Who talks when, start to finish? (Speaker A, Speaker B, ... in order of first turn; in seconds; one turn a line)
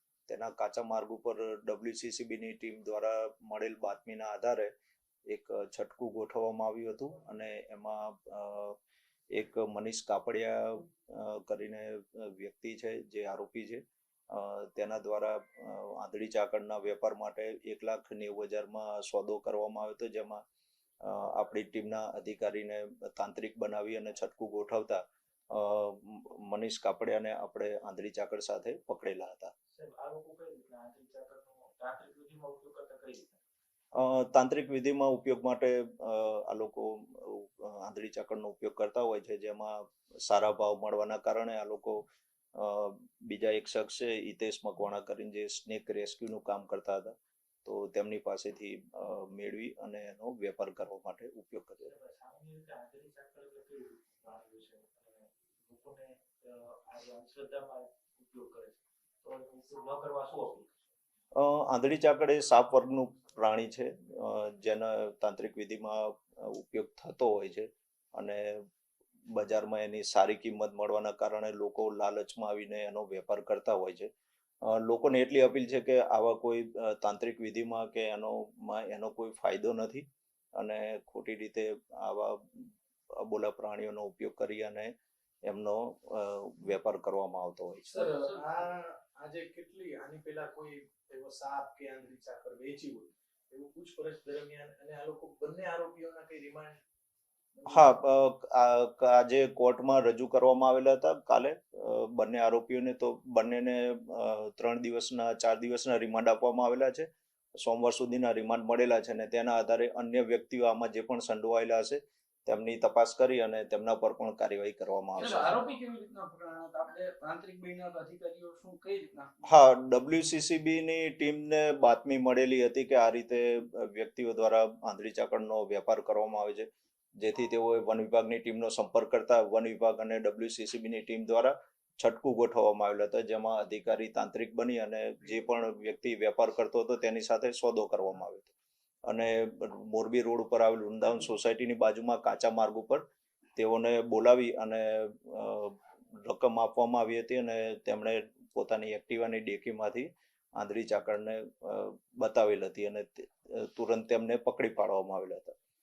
Speaker A: 0.3-4.7
Speaker A: 5.3-8.8
Speaker A: 9.3-20.4
Speaker A: 21.0-29.5
Speaker B: 29.7-33.4
Speaker A: 33.9-51.9
Speaker B: 51.8-60.8
Speaker A: 61.3-68.6
Speaker A: 69.3-74.1
Speaker A: 74.6-84.9
Speaker A: 85.4-88.1
Speaker C: 87.9-88.4
Speaker D: 88.0-96.8
Speaker D: 97.5-97.9
Speaker A: 97.7-115.5
Speaker C: 115.2-119.3
Speaker A: 119.4-138.5
Speaker A: 139.1-143.1
Speaker A: 143.6-155.5